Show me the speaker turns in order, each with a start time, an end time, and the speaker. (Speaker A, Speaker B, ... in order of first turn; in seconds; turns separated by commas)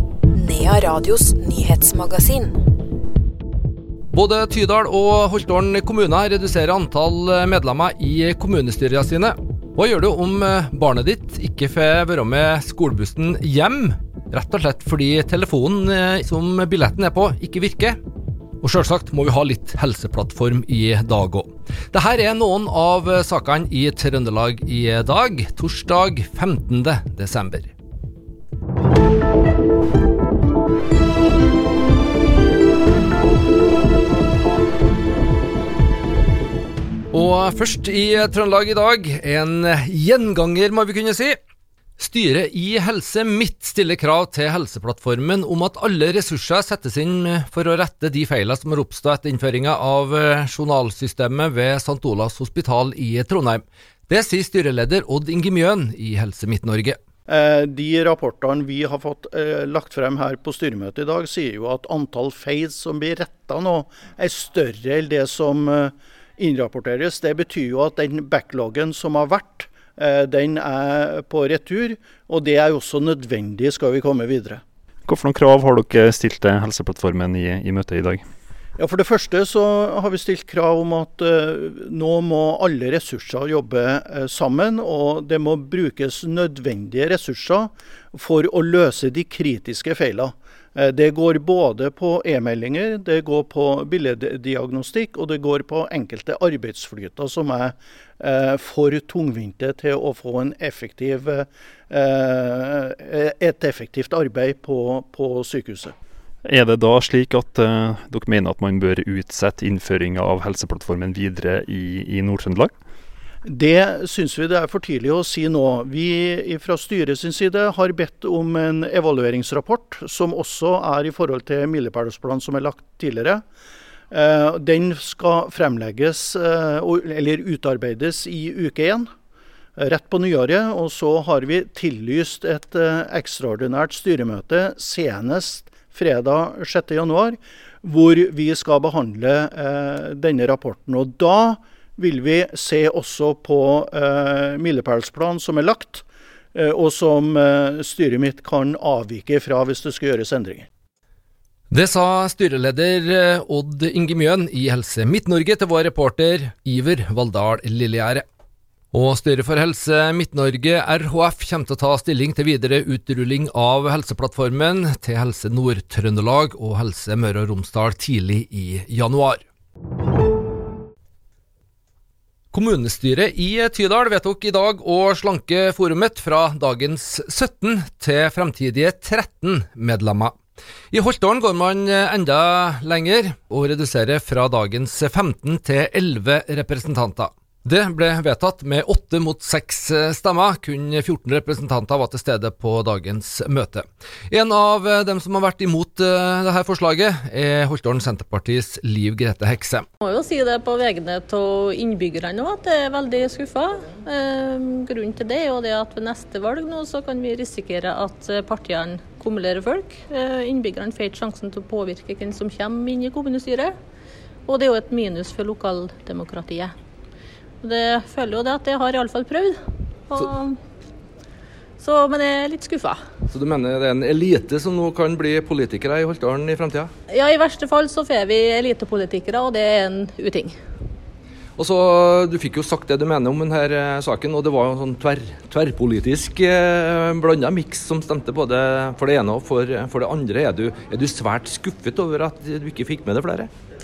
Speaker A: 0.3-2.6, Speaker B: 4.1-18.0, Speaker B: 18.6-27.7, Speaker B: 37.1-41.4, Speaker B: 42.0-57.0, Speaker C: 57.3-74.6, Speaker D: 75.1-78.2, Speaker C: 78.8-105.9, Speaker D: 106.5-112.7, Speaker C: 113.5-123.4, Speaker C: 124.1-129.1, Speaker C: 129.8-150.7, Speaker B: 151.7-158.2, Speaker B: 158.9-169.4, Speaker B: 172.5-180.3, Speaker B: 180.9-199.9, Speaker E: 200.0-213.7, Speaker E: 214.5-216.7, Speaker E: 217.6-219.6, Speaker E: 220.1-220.6, Speaker E: 221.8-223.0, Speaker B: 223.3-226.9, Speaker E: 227.1-230.5, Speaker B: 231.6-243.5